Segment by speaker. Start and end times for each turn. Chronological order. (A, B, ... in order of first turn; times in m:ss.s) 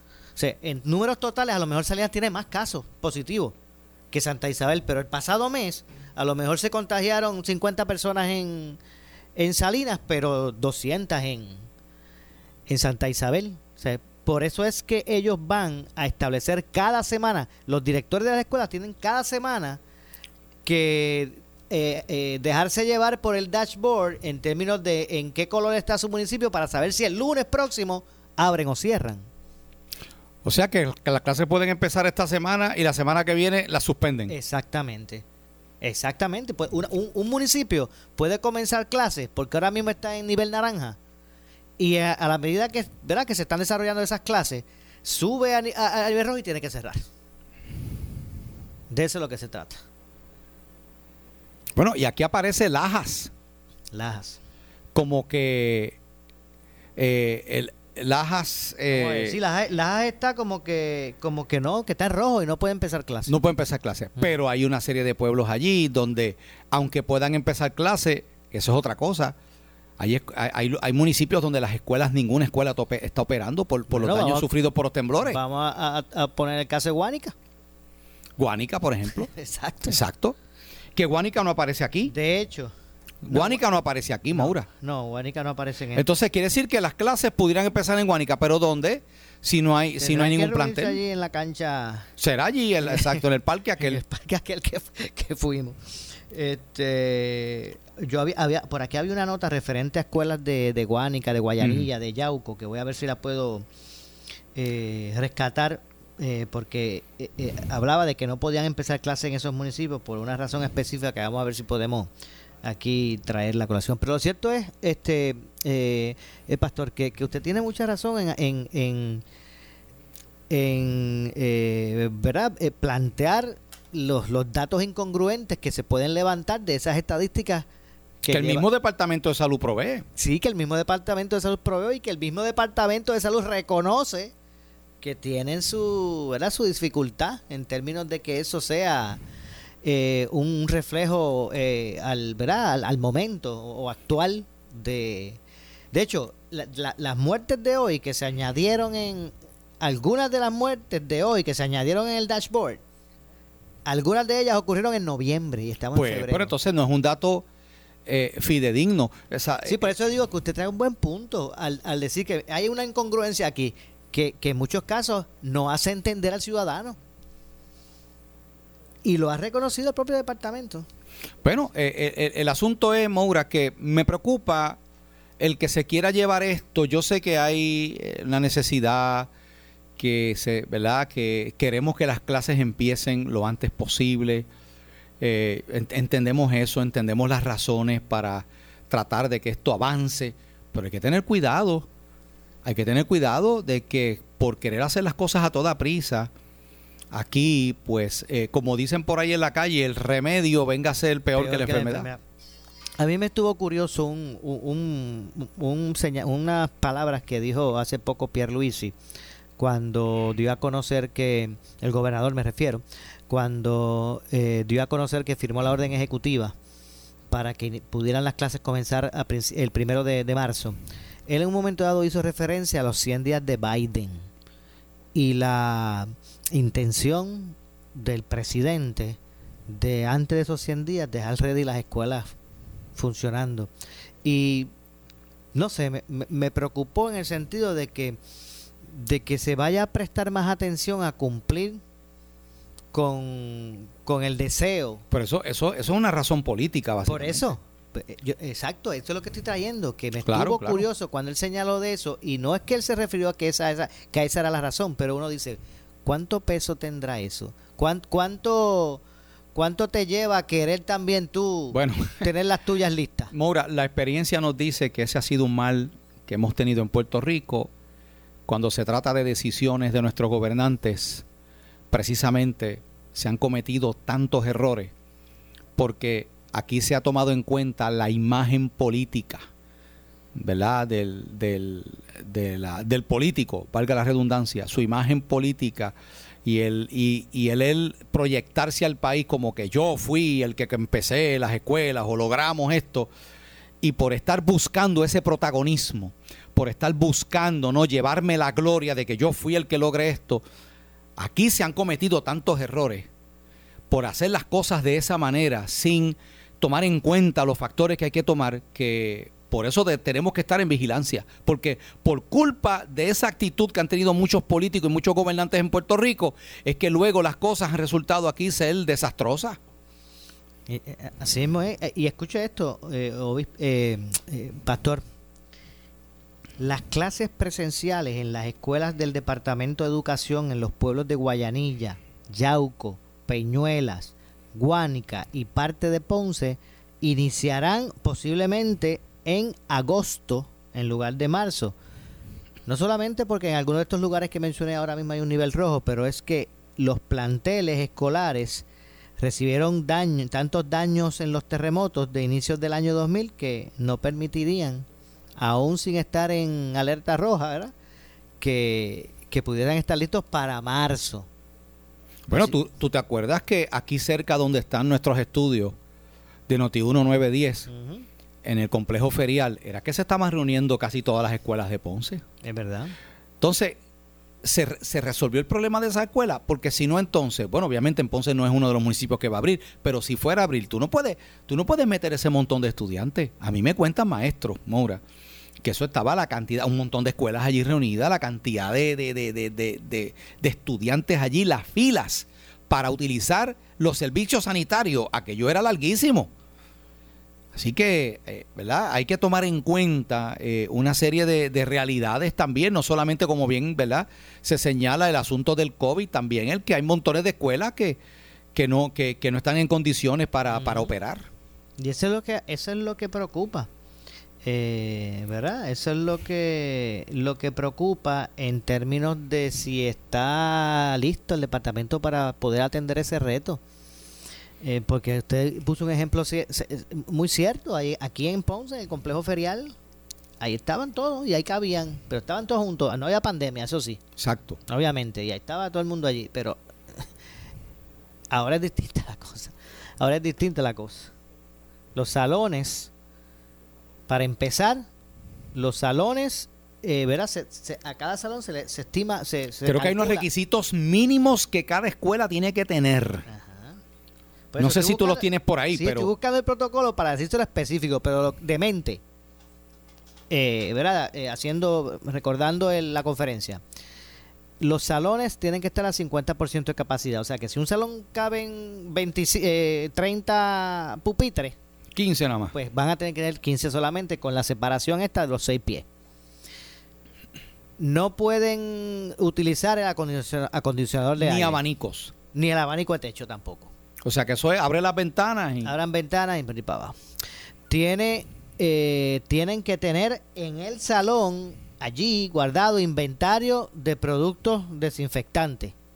0:00.4-0:03.6 A
0:04.1-0:08.8 A
0:09.4-0:11.7 A
0:12.7-0:19.8 A
0:20.6-0:29.3 A
0:30.4-0:34.3 B
0:34.3-0:35.2 A
0:35.8-0:41.0 A
0:41.8-0:47.1 A
0:48.9-0:49.8 A
0:51.8-0:53.3 B
0:53.9-0:54.4 A
0:54.9-0:56.0 B
0:57.0-0:59.4 B
0:58.9-1:03.4 A
1:03.3-1:09.4 B
1:10.0-1:15.4 B
1:13.9-1:14.5 A
1:15.2-1:17.4 A
1:18.4-1:19.3 B
1:19.3-1:20.0 A
1:19.9-1:20.4 B
1:21.0-1:22.1 B
1:22.0-1:22.7 A
1:23.2-1:24.7 B
1:23.3-1:23.6 A
1:24.3-1:26.1 A
1:26.0-1:31.0 B
1:30.0-1:32.1 A
1:32.2-1:34.0 B
1:32.9-1:33.2 A
1:33.8-1:35.8 A
1:36.3-1:43.7 A
1:41.6-1:41.9 B
1:44.6-1:52.1 A
1:52.6-1:59.2 A
2:00.5-2:07.7 A
2:08.2-2:08.7 A
2:08.3-2:10.0 B
2:10.2-2:14.3 A
2:15.0-2:19.2 A
2:19.8-2:25.4 A
2:25.9-2:32.8 A
2:33.9-2:36.5 A
2:35.9-2:37.5 B
2:38.1-2:39.9 B
2:39.7-2:47.0 A
2:49.0-2:50.9 A
2:51.4-2:54.8 B
2:55.4-2:59.3 B
3:00.0-3:04.5 B
3:05.2-3:11.9 B
3:12.6-3:16.3 B
3:17.1-3:22.1 B
3:21.3-3:22.2 A
3:23.0-3:29.0 A
3:29.6-3:36.6 A
3:37.3-3:44.3 A
3:45.1-3:49.2 A
3:49.7-3:52.3 A
3:53.0-3:53.7 A
3:54.2-3:54.7 A
3:55.5-3:58.2 A
3:58.9-4:01.8 A
4:02.9-4:05.0 A
4:05.1-4:07.6 B
4:07.1-4:19.0 A
4:10.2-4:10.9 B
4:19.5-4:23.3 A
4:21.7-4:22.3 B
4:23.3-4:27.7 B
4:28.5-4:31.2 B
4:31.9-4:34.9 B
4:35.8-4:39.5 B
4:40.4-4:53.1 B
4:53.8-5:00.4 B
5:01.2-5:03.1 B
5:03.9-5:19.6 B
5:20.7-5:25.0 A
5:26.6-5:41.8 A
5:42.7-5:48.6 A
5:49.2-5:54.9 A
5:55.4-5:57.7 A
5:58.4-6:01.3 A
6:02.3-6:05.8 B
6:02.3-6:02.6 A
6:06.5-6:07.7 B
6:07.7-6:08.1 A
6:08.4-6:12.2 B
6:12.4-6:13.0 A
6:13.4-6:13.8 B
6:14.4-6:25.0 B
6:25.6-6:36.3 B
6:37.6-6:48.0 B
6:48.5-6:51.3 B
6:50.5-6:50.9 A
6:51.8-6:53.7 A
6:54.4-7:03.6 A
7:04.6-7:09.7 A
7:10.4-7:14.0 A
7:14.2-7:14.6 B
7:14.7-7:17.0 A
7:18.3-7:21.1 A
7:22.0-7:22.9 A
7:24.1-7:24.9 A
7:25.6-7:30.3 A
7:29.6-7:33.3 B
7:33.3-7:33.8 A
7:34.5-7:39.0 A
7:34.6-7:36.1 B
7:40.3-7:43.6 A
7:44.6-7:51.6 A
7:51.9-7:52.6 B
7:52.5-7:55.9 A
7:57.8-8:01.6 A
8:01.2-8:02.1 B
8:02.3-8:03.7 A
8:04.0-8:05.7 B
8:05.6-8:07.0 A
8:07.7-8:15.7 A